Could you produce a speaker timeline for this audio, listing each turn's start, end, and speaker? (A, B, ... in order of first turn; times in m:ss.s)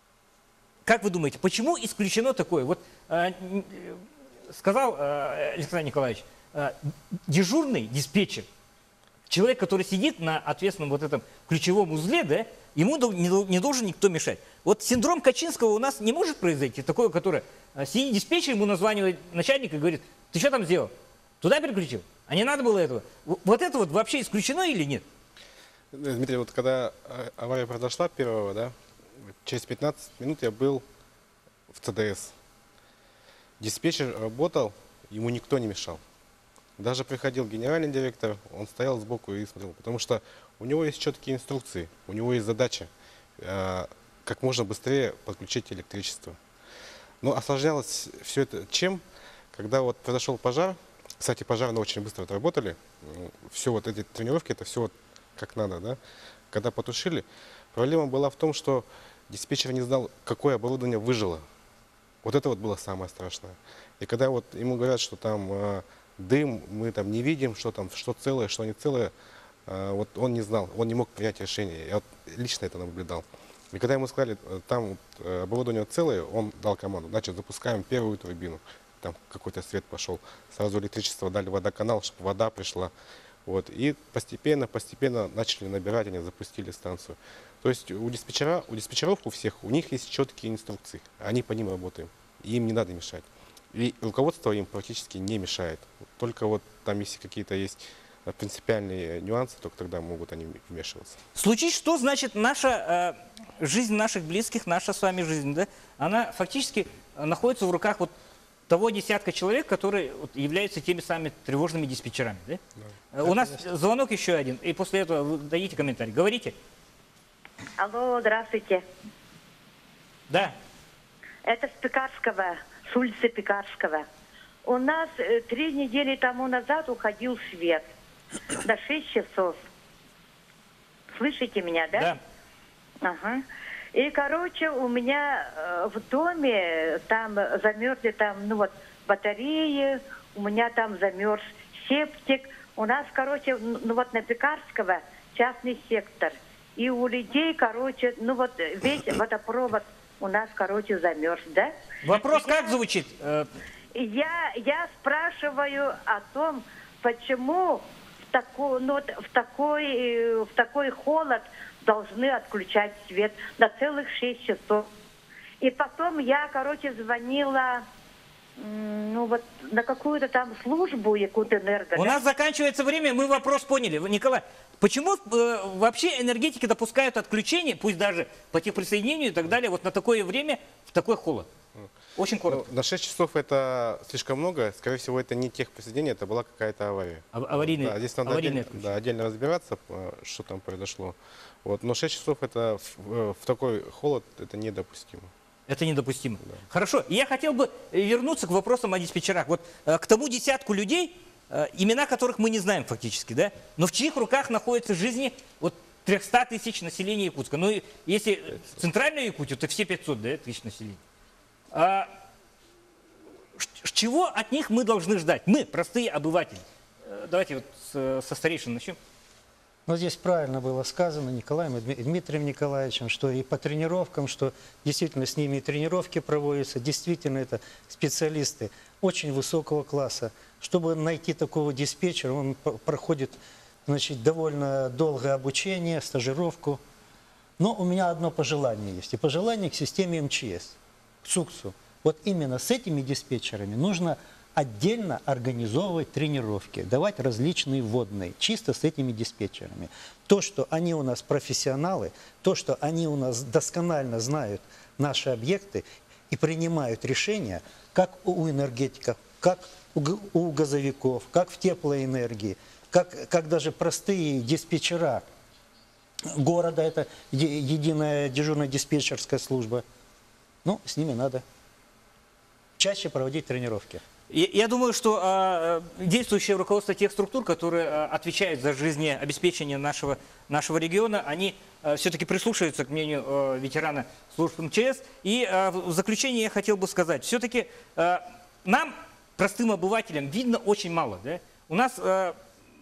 0:00.8-0:08.5 A
0:09.3-0:25.0 A
0:25.9-0:28.7 B
0:29.4-0:30.8 B
0:31.7-0:32.3 B
0:33.6-0:36.0 B
0:36.8-0:46.4 B
0:47.2-0:49.0 B
0:49.5-0:56.0 B
0:56.5-1:01.4 B
1:02.2-1:09.1 B
1:09.7-1:22.9 B
1:23.4-1:41.2 B
1:41.3-1:48.1 A
1:48.7-1:52.6 A
1:53.1-1:56.6 A
1:57.8-1:58.8 C
2:00.3-2:00.5 A
2:01.4-2:04.0 C
2:04.6-2:07.9 C
2:08.6-2:09.6 C
2:11.1-2:12.2 C
2:13.0-2:32.8 C
2:32.0-2:33.5 A
2:33.9-2:44.9 C
2:45.6-2:47.8 C
2:48.6-2:52.2 C
2:52.0-3:01.5 A
3:02.2-3:02.6 A
3:02.5-3:15.3 B
3:07.3-3:08.9 A
3:15.7-3:31.0 A
3:31.7-3:32.1 A
3:33.6-3:39.0 A
3:39.9-3:56.8 D
3:57.6-4:25.2 D
4:26.3-4:29.8 D
4:30.6-4:31.4 D
4:32.8-4:34.0 D
4:34.3-4:52.4 A